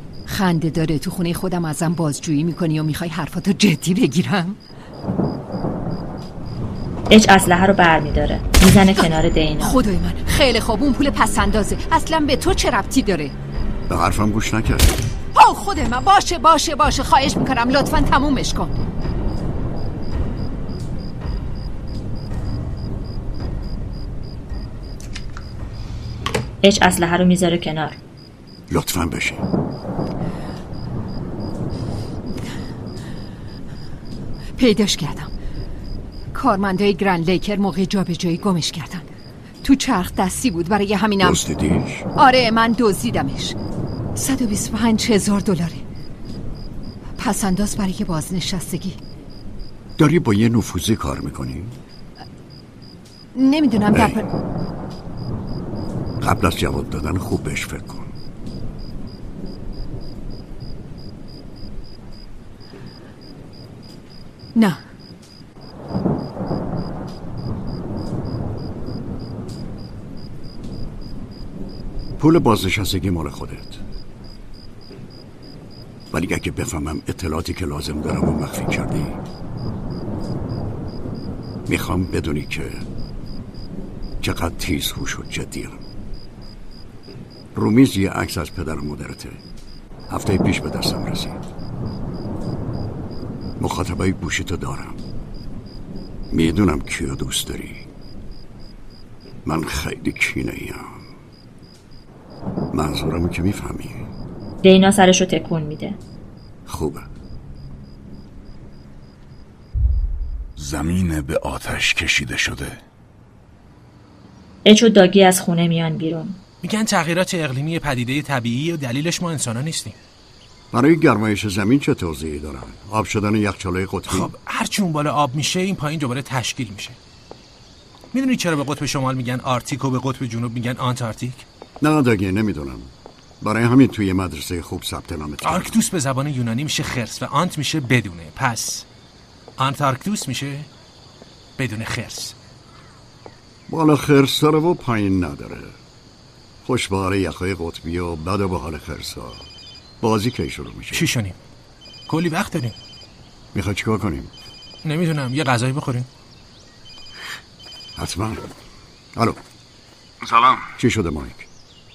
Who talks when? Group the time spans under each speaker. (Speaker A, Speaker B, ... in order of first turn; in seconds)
Speaker A: 0.3-4.6, 8.9-13.3, 15.3-18.7, 34.6-35.3, 36.3-39.0, 39.6-41.4, 42.1-43.5, 44.1-45.8, 47.2-49.0, 53.3-54.2
Speaker B: 7.1-9.8, 26.6-28.0, 104.6-106.0, 114.6-116.4
Speaker C: 13.9-15.0, 28.7-29.4, 41.2-42.0, 50.0-51.7, 53.9-54.2, 56.2-58.1, 72.2-73.8, 76.1-79.2, 81.7-82.8, 84.2-85.8, 87.5-89.4, 90.1-91.4, 93.6-95.0, 96.3-97.8, 99.4-100.9, 102.7-104.0, 106.7-107.0, 120.7-124.3, 131.8-135.8, 143.7-145.7, 146.6-149.4, 150.0-151.1, 153.5-154.3, 157.9-158.4, 160.8-161.4
Speaker D: 110.6-112.7, 160.2-160.7
Speaker E: 116.6-120.0, 124.1-127.0, 128.1-131.4, 135.4-138.8, 139.6-140.7, 141.6-142.3, 150.9-151.3, 152.1-152.8, 154.8-156.1